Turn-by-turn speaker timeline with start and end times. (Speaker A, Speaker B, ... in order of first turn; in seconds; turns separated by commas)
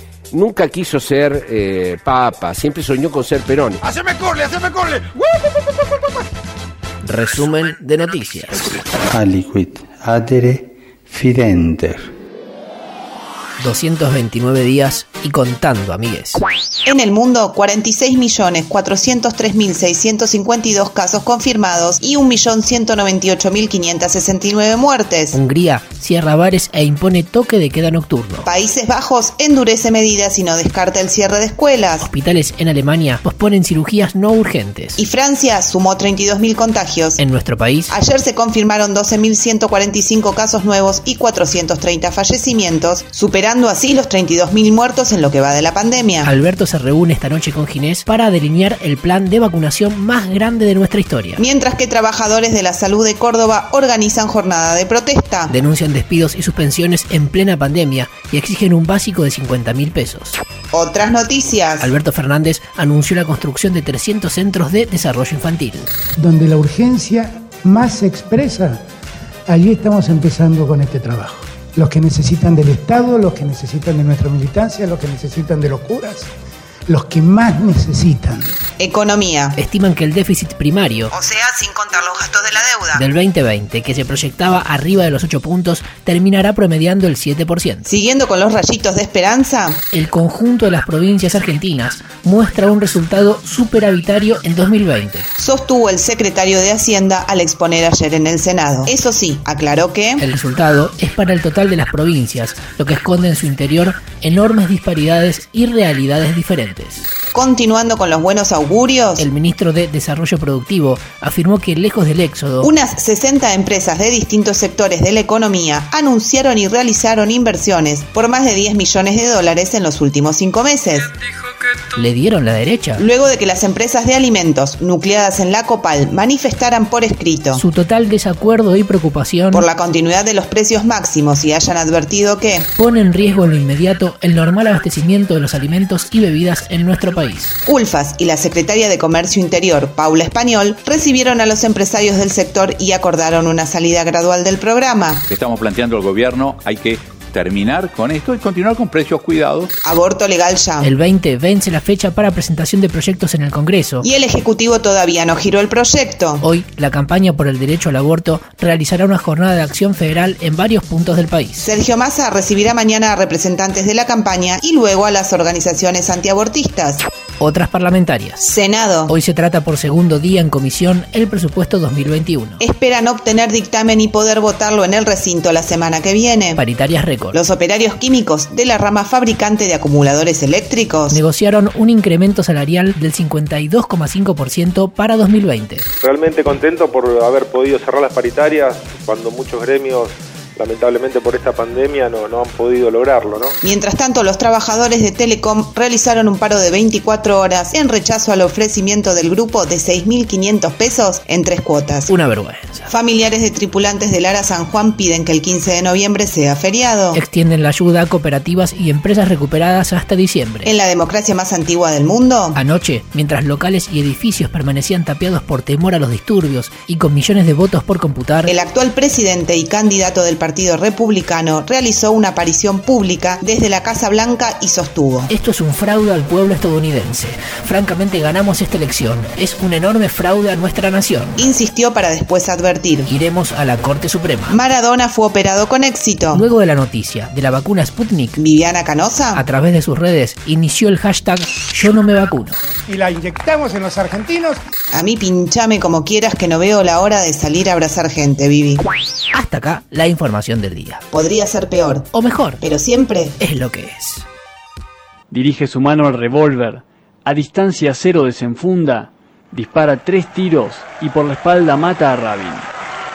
Speaker A: 0.3-3.8, Speaker B: 7.0-8.8, Speaker C: 9.1-12.1, Speaker B: 13.6-16.4, Speaker D: 16.8-25.4, Speaker B: 25.3-28.5, Speaker D: 28.4-32.1, Speaker B: 32.0-35.0, Speaker D: 35.0-37.2, Speaker B: 37.2-38.0, Speaker D: 37.9-46.3, Speaker B: 46.2-51.4, Speaker D: 51.4-55.5, Speaker B: 55.5-60.4, Speaker D: 60.7-61.9, Speaker B: 61.8-65.9, Speaker E: 66.2-68.8, Speaker E: 69.5-76.3, Speaker E: 76.9-78.6, Speaker D: 78.8-79.6, Speaker B: 79.6-81.1, Speaker D: 81.1-83.0, Speaker B: 82.9-87.9, Speaker D: 87.8-89.8, Speaker B: 89.9-95.3, Speaker D: 95.4-100.2, Speaker B: 100.2-107.1, Speaker D: 107.3-109.3, Speaker B: 109.2-112.7, Speaker D: 112.6-121.1, Speaker B: 121.9-123.0, Speaker D: 123.0-127.6, Speaker B: 127.5-129.7, Speaker D: 129.5-132.7, Speaker B: 132.8-137.6, Speaker D: 137.7-145.2, Speaker F: 145.3-149.7, Speaker D: 149.8-150.9, Speaker B: 150.8-154.1, Speaker D: 154.0-156.4, Speaker B: 156.4-161.7, Speaker D: 161.6-167.1, Speaker B: 167.4-168.5, Speaker D: 168.4-169.1, Speaker B: 169.1-172.6, Speaker D: 172.6-176.6, Speaker B: 176.6-177.4, Speaker D: 177.3-181.2, Speaker B: 181.1-185.8, Speaker G: 186.0-193.5, Speaker D: 193.6-202.1, Speaker B: 202.1-202.9, Speaker D: 202.9-207.2, Speaker B: 207.1-210.7, Speaker D: 210.6-212.6, Speaker B: 212.5-218.5, Speaker D: 218.4-225.3, Speaker B: 225.3-231.4, Speaker D: 231.4-233.1, Speaker B: 233.1-234.6, Speaker D: 234.5-236.4, Speaker B: 236.3-238.4, Speaker D: 238.4-239.4, Speaker B: 239.3-242.6, Speaker E: 242.9-244.6, Speaker D: 244.9-248.8, Speaker B: 249.3-251.0, Speaker D: 251.1-252.1, Speaker B: 252.1-252.6, Speaker D: 252.6-253.4, Speaker B: 253.4-254.2, Speaker H: 255.3-262.7